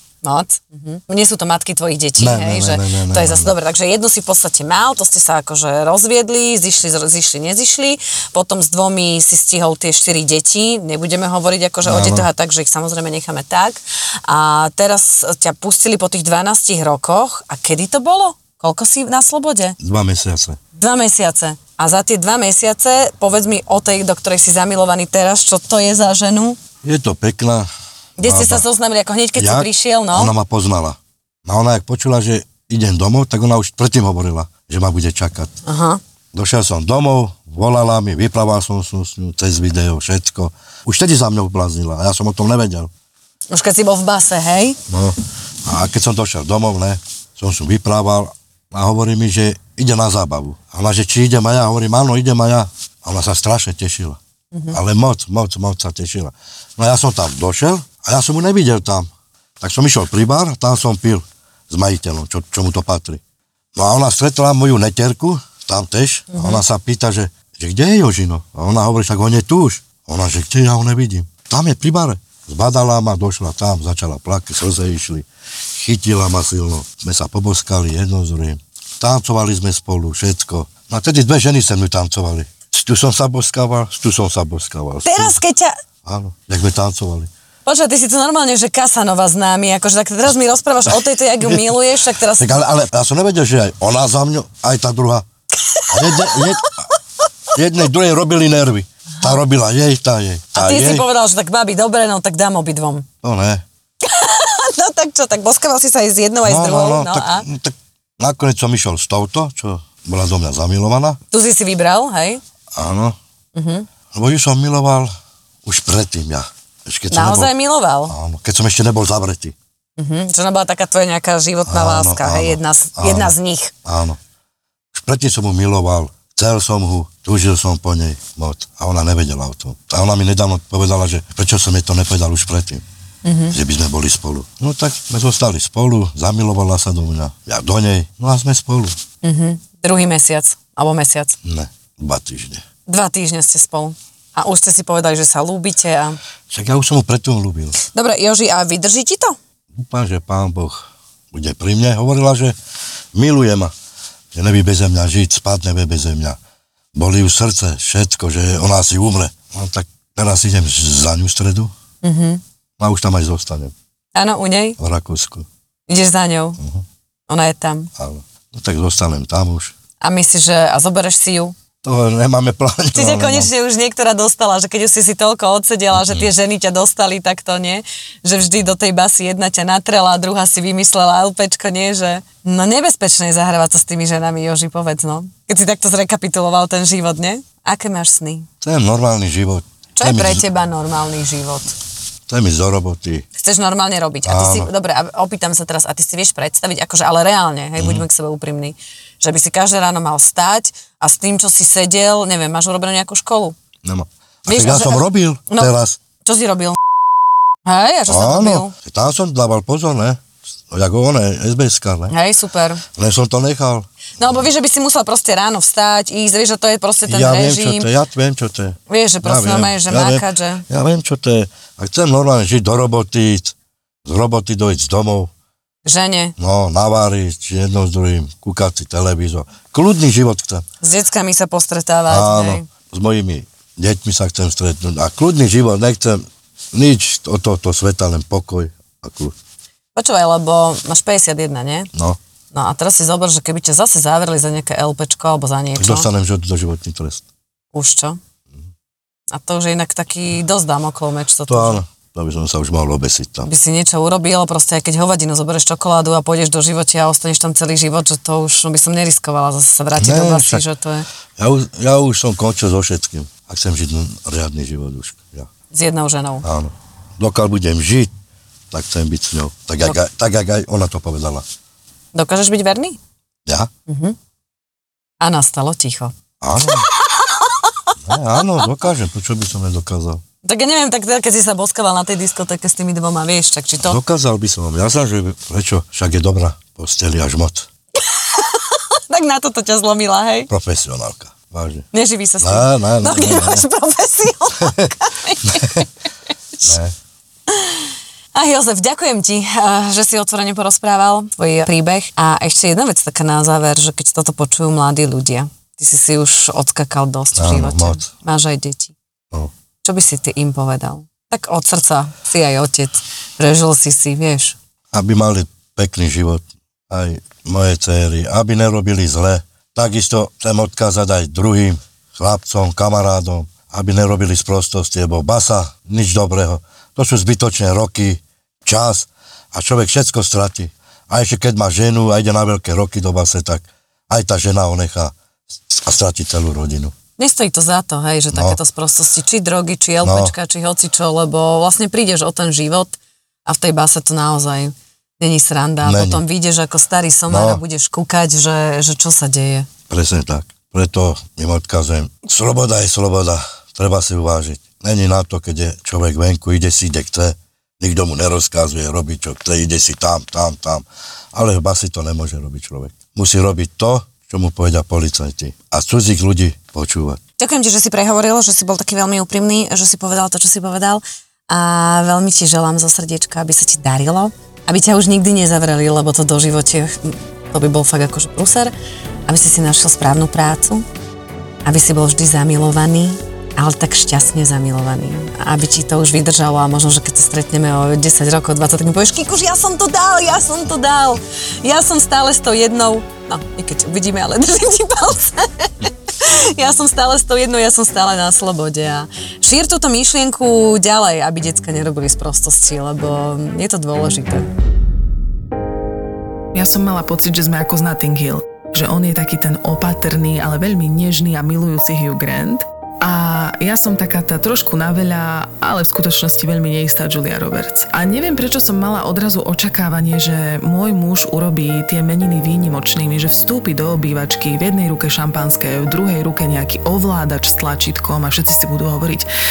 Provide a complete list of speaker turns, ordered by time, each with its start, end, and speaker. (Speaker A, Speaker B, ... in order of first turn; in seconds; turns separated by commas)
Speaker A: 0.2-19.8, Speaker B: 2.2-3.5, Speaker B: 11.8-12.3, Speaker B: 19.8-20.6, Speaker A: 20.7-26.6, Speaker B: 26.8-27.7, Speaker A: 28.2-30.3, Speaker B: 28.2-28.6, Speaker B: 29.4-35.6, Speaker A: 35.6-36.0, Speaker B: 36.3-42.9, Speaker A: 43.5-44.8, Speaker B: 44.9-54.2, Speaker A: 54.5-54.8, Speaker B: 54.7-59.1, Speaker B: 59.6-63.2, Speaker B: 63.8-85.4, Speaker A: 66.3-66.6, Speaker A: 85.0-85.8, Speaker B: 86.0-87.3, Speaker A: 87.7-92.5, Speaker B: 91.4-91.7, Speaker B: 92.4-95.2, Speaker A: 95.7-96.7, Speaker B: 95.9-96.7, Speaker B: 97.5-101.1, Speaker A: 100.5-103.1, Speaker B: 103.2-103.6, Speaker A: 104.0-107.5, Speaker B: 106.4-111.2, Speaker A: 111.3-112.4, Speaker B: 112.7-113.2, Speaker A: 113.5-113.9, Speaker B: 114.1-115.1, Speaker B: 115.7-117.5, Speaker A: 117.1-118.2, Speaker B: 118.1-119.5, Speaker A: 120.0-123.7, Speaker B: 121.7-123.3, Speaker B: 123.8-124.2, Speaker B: 124.9-132.8, Speaker A: 133.2-133.6, Speaker B: 133.5-139.0, Speaker A: 139.2-141.4, Speaker B: 141.4-142.6, Speaker A: 142.9-146.2, Speaker B: 146.5-147.8, Speaker A: 147.8-149.4, Speaker B: 149.7-152.6, Speaker B: 153.1-153.7, Speaker B: 154.3-156.4, Speaker B: 156.9-161.7, Speaker A: 162.0-162.4, Speaker B: 162.8-163.7, Speaker A: 164.2-164.8, Speaker B: 164.8-165.5, Speaker A: 165.9-166.6, Speaker B: 166.6-166.8, Speaker A: 167.3-167.9, Speaker B: 168.0-169.8, Speaker A: 170.0-171.5, Speaker B: 171.8-173.5, Speaker A: 172.9-188.5, Speaker B: 175.9-176.3, Speaker B: 188.6-190.4, Speaker A: 190.0-191.7, Speaker B: 192.3-193.3, Speaker A: 193.4-203.6, Speaker B: 194.2-194.7, Speaker B: 197.8-198.1, Speaker B: 203.8-206.0, Speaker A: 204.5-205.7, Speaker A: 206.2-206.8, Speaker A: 207.7-208.7, Speaker B: 208.1-212.1, Speaker A: 212.1-212.8, Speaker B: 212.9-214.5, Speaker A: 214.2-217.9, Speaker B: 217.1-225.3, Speaker A: 218.9-220.6, Speaker A: 225.8-226.3, Speaker B: 226.4-230.7, Speaker A: 230.8-232.7, Speaker B: 232.1-239.4, Speaker A: 239.9-241.9, Speaker A: 242.5-246.1, Speaker B: 245.8-247.2, Speaker A: 247.7-248.2, Speaker A: 249.3-251.8, Speaker B: 251.5-253.5, Speaker A: 253.4-261.1, Speaker B: 260.0-260.6, Speaker B: 261.4-265.5, Speaker A: 265.7-266.4, Speaker B: 266.4-268.1, Speaker B: 268.7-271.4, Speaker A: 272.1-273.0, Speaker A: 273.9-274.2, Speaker A: 275.2-278.6, Speaker B: 276.4-276.9, Speaker B: 278.1-280.2, Speaker A: 280.4-284.0, Speaker B: 283.8-287.7, Speaker A: 288.0-290.5, Speaker B: 290.5-291.9, Speaker A: 291.9-295.9, Speaker B: 292.4-293.7, Speaker B: 295.4-295.9, Speaker B: 296.6-296.9, Speaker A: 297.5-308.9, Speaker B: 307.4-308.1, Speaker A: 309.8-314.6, Speaker B: 314.9-335.1, Speaker B: 335.7-336.9, Speaker A: 337.2-349.7, Speaker B: 338.3-338.6, Speaker B: 340.0-340.4, Speaker B: 345.8-346.2, Speaker B: 347.3-347.6, Speaker B: 349.9-367.2, Speaker A: 367.4-378.7, Speaker A: 379.3-380.9, Speaker A: 381.6-404.5, Speaker C: 406.5-429.3